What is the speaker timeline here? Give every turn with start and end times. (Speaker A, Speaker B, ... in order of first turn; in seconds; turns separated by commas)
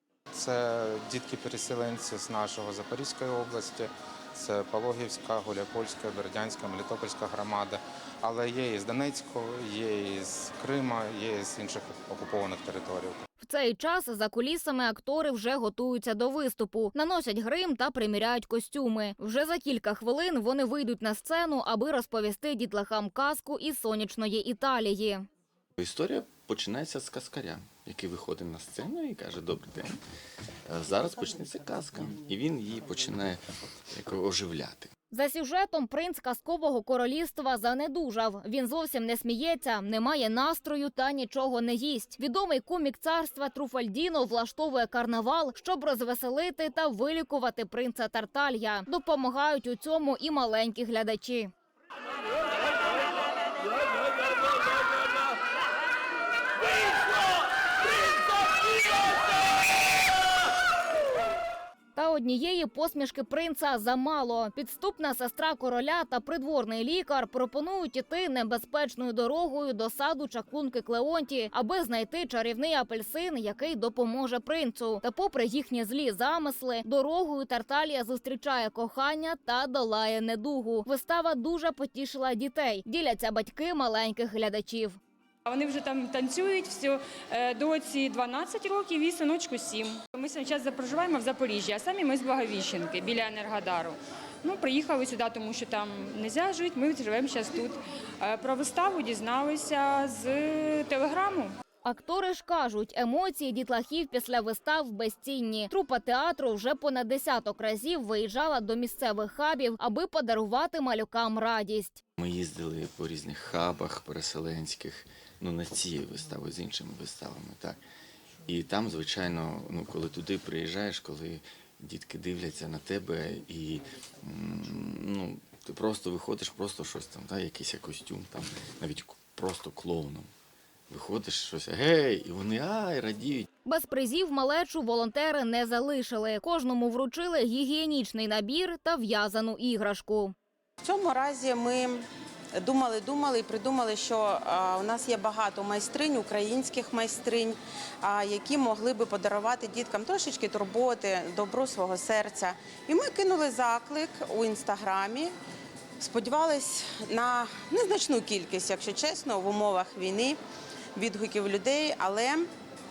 Speaker A: 0.3-13.2, Speaker B: 13.4-25.2, Speaker C: 25.8-30.0, Speaker C: 30.7-33.4, Speaker C: 33.9-34.9, Speaker B: 35.1-51.5, Speaker B: 62.0-85.0, Speaker D: 85.5-101.5, Speaker B: 101.8-112.0, Speaker C: 112.2-117.8, Speaker C: 118.5-130.3, Speaker C: 130.9-133.5, Speaker B: 133.6-140.3, Speaker E: 140.8-155.3, Speaker E: 156.0-160.4, Speaker E: 160.9-162.5